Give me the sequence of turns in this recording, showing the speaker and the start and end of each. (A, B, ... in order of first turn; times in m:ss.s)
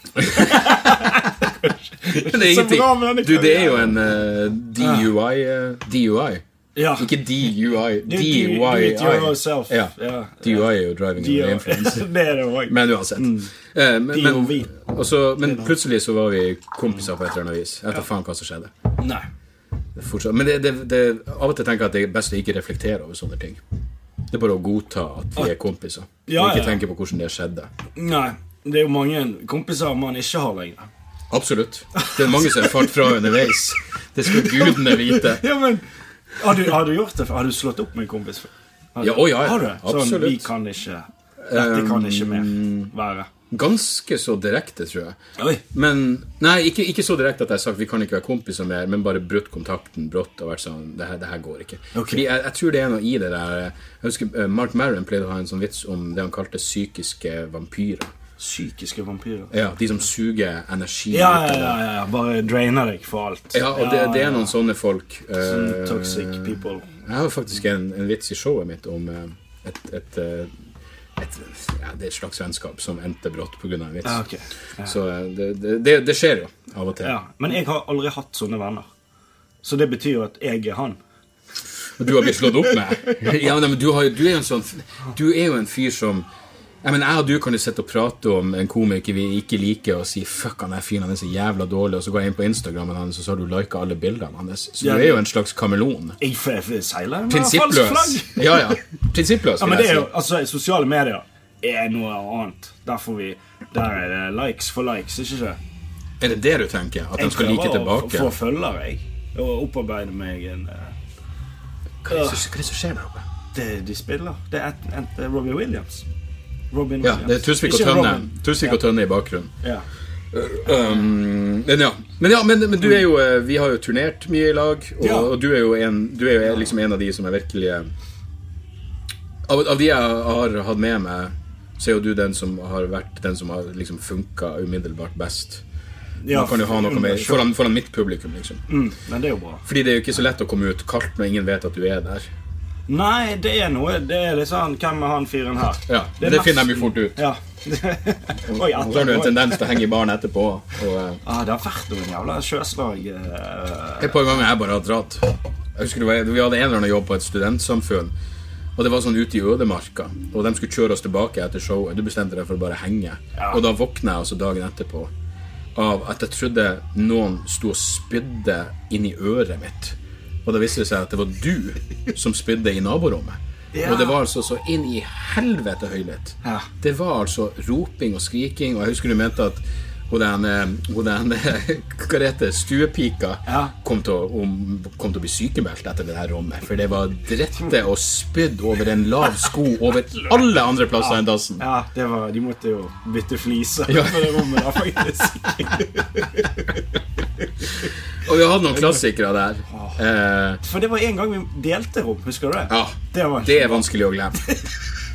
0:00.2-0:00.8 A
0:00.2-0:04.0 B
0:02.2-0:12.1 A
0:04.8-0:05.1 B
0:06.8-0:07.1 B
0:08.1-0:13.5 B
0:12.7-0:18.7 A
0:14.1-0:14.7 B
0:15.4-0:15.7 B
0:19.0-0:19.2 B
0:20.0-0:23.6 A
0:24.3-0:27.7 A
0:26.3-0:26.8 B
0:28.0-0:30.9 B
0:31.3-0:35.4 A
0:32.0-0:32.9 B
0:34.3-0:35.8 B
0:36.4-0:43.3 B
0:39.0-0:40.5 A
0:41.5-0:42.9 A
0:43.5-0:45.2 A
0:45.4-0:45.6 B
0:45.7-0:58.1 A
0:51.9-0:52.2 B
0:58.4-0:59.5 B
0:59.5-1:01.8 A
1:01.1-1:04.5 B
1:03.5-1:06.5 A
1:05.4-1:06.9 B
1:07.0-1:10.5 A
1:11.2-1:14.2 A
1:14.0-1:14.9 B
1:14.8-1:17.2 A
1:17.0-1:18.9 B
1:19.6-1:21.0 B
1:22.0-1:26.3 A
1:26.8-1:36.2 A
1:34.8-1:35.2 B
1:36.2-1:38.8 B
1:37.3-1:40.1 A
1:39.6-1:45.6 B
1:46.2-1:48.4 A
1:47.2-1:50.9 B
1:52.0-1:53.2 A
1:52.1-1:52.4 B
1:53.5-1:56.0 B
1:56.7-1:58.8 B
1:57.0-1:59.5 A
2:00.3-2:07.9 A
2:05.0-2:05.4 B
2:09.5-2:15.6 A
2:16.2-2:17.5 B
2:16.3-2:18.6 A
2:18.7-2:19.6 B
2:19.6-2:22.3 A
2:22.9-2:29.7 B
2:25.9-2:27.2 A
2:28.5-2:31.2 A
2:31.2-2:34.2 B
2:34.0-2:38.1 A
2:38.8-2:45.1 A
2:43.4-2:43.6 B
2:45.8-3:11.6 A
2:53.7-2:54.2 B
2:56.4-2:56.7 B
3:03.5-3:03.7 B
3:11.0-3:16.6 B
3:13.9-3:14.8 A
3:18.2-3:20.6 A
3:18.7-3:19.0 B
3:20.6-3:24.6 B
3:22.7-3:24.5 A